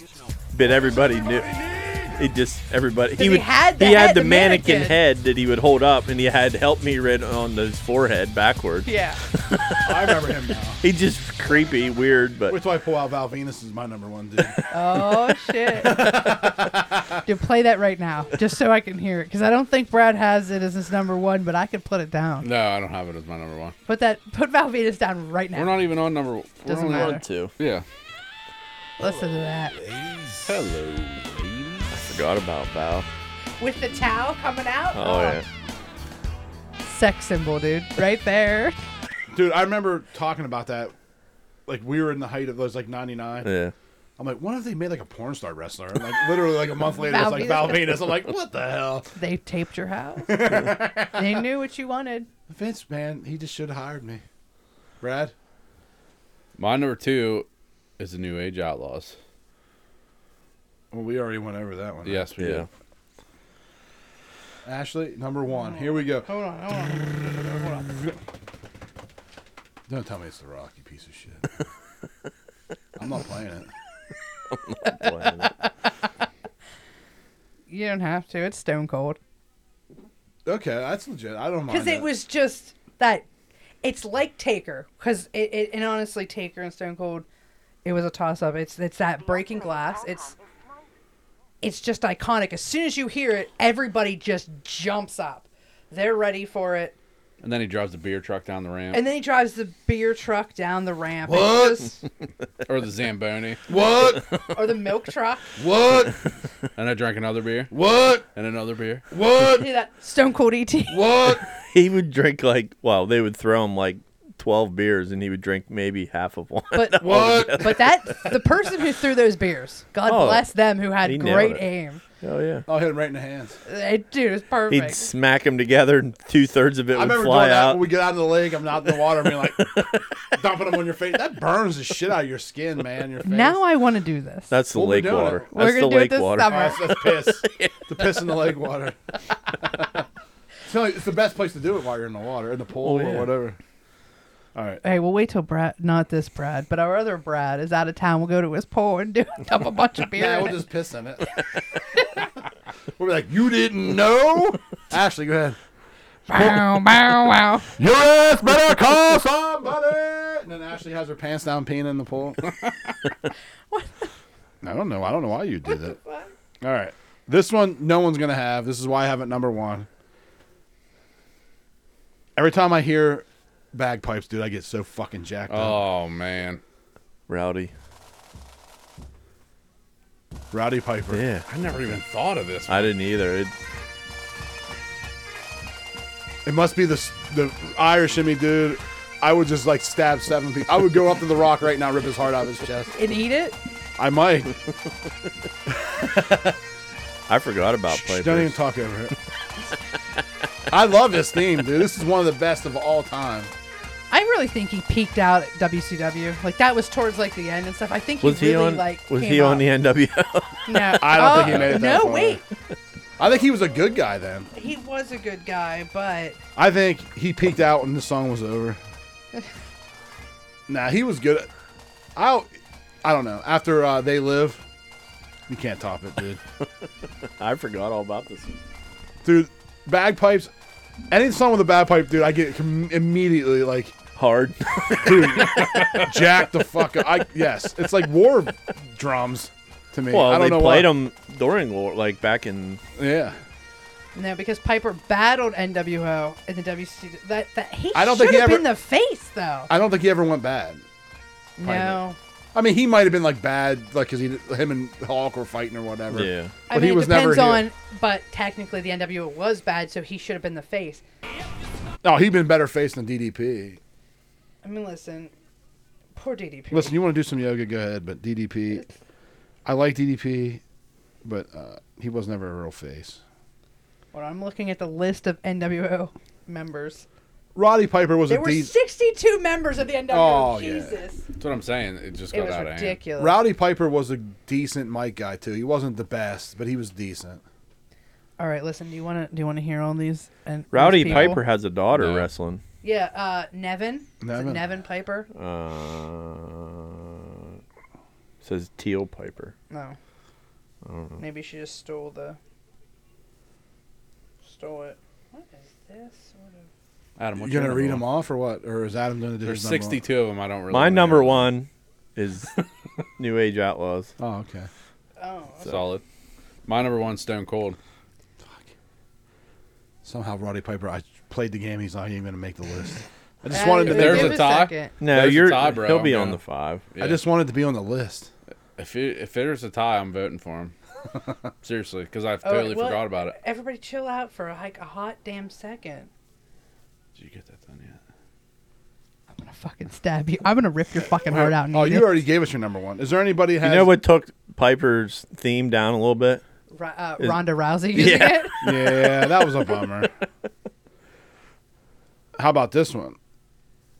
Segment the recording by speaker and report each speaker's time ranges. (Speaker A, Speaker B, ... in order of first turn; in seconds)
Speaker A: 0.5-10.2, 10.8-12.6, 26.9-27.5, 31.9-33.1, 34.9-35.5, 43.4-43.7, 62.4-62.7, 74.7-75.5, 111.6-118.3, 120.1-121.6, 122.2-122.7, 124.7-127.9, 129.6-130.0, 134.5-138.2, 142.8-143.3, 177.3-177.7, 181.1-181.4, 182.7-183.5, 197.3-198.6, 208.2-211.5, 227.4-228.6, 234.2-236.1, 240.1-242.8, 256.1-256.5, 290.7-292.6, 295.3-297.5, 298.4-299.5, 300.8-301.2, 310.7-312.6, 313.2-314.1, 325.0-326.8, 343.6-346.4, 347.2-349.2
Speaker B: 3.2-5.0, 8.9-9.2, 14.7-16.1, 17.2-22.5, 23.9-25.9, 26.6-27.2, 29.0-29.7, 33.6-35.4, 36.8-38.8, 47.0-48.0, 49.1-52.3, 65.6-68.0, 75.0-75.7, 77.7-79.2, 81.7-83.2, 83.8-87.2, 87.8-90.4, 91.6-96.9, 98.9-102.0, 104.5-105.5, 109.4-111.1, 116.7-122.0, 123.7-125.1, 133.2-134.5, 135.5-136.9, 144.8-150.6, 156.3-157.7, 163.7-164.1, 165.7-166.3, 192.9-193.6, 204.1-209.7, 210.7-212.4, 214.5-216.4, 244.1-249.7, 251.6-252.2, 256.7-261.0, 264.6-265.3, 266.1-267.0, 274.1-277.1, 278.3-281.2, 282.3-283.4, 288.4-291.4, 292.8-295.3, 299.7-299.9, 301.2-302.4, 304.4-306.7, 315.2-315.8, 323.5-324.9, 332.4-336.1, 339.3-342.2, 346.7-348.6
Speaker C: 9.8-10.8, 12.5-14.6, 15.7-17.2, 39.3-40.9, 41.7-43.5, 44.2-49.1, 50.3-51.4, 52.5-54.2, 55.0-55.3, 60.9-62.3, 64.6-66.3, 69.9-71.5, 73.0-73.7, 80.4-82.1, 101.2-101.9, 103.7-104.2, 105.6-106.2, 107.7-108.2, 109.1-109.7, 110.9-111.5, 117.0-117.9, 122.7-123.6, 126.9-133.6, 134.7-135.5, 136.4-139.0, 139.6-140.0, 140.7-143.6, 144.6-144.8, 150.1-151.4, 153.0-155.6, 157.8-162.5, 164.6-166.0, 166.6-169.9, 172.4-175.9, 180.5-181.2, 186.4-192.9, 194.0-194.6, 195.7-196.6, 197.9-199.1, 200.7-203.5, 211.0-212.4, 213.2-214.5, 216.6-218.8, 220.7-221.5, 222.2-222.5, 223.0-224.6, 225.5-226.4, 229.2-230.5, 231.1-234.0, 234.9-240.9, 243.0-243.4, 247.9-248.7, 249.7-250.8, 251.6-252.0, 252.5-257.6, 262.0-263.8, 266.7-268.8, 269.6-270.6, 271.2-273.2, 277.6-278.7, 280.1-281.0, 283.2-287.4, 294.2-294.6, 307.4-310.0, 314.2-314.7, 320.0-324.6, 327.0-328.3, 341.3-343.9, 348.6-350.1, 352.4-353.2
Speaker D: 22.4-23.8, 25.5-27.9, 30.4-31.9, 56.6-57.5, 58.0-59.1, 62.0-62.7, 97.4-99.0, 102.7-103.6, 106.8-107.7, 108.3-109.0, 175.5-176.6, 181.5-182.9, 281.4-283.0, 291.9-292.3, 307.2-308.1, 309.4-311.5, 315.6-316.0, 316.6-317.8, 323.8-326.4, 326.9-327.2, 328.8-330.7, 331.6-333.4, 337.1-338.0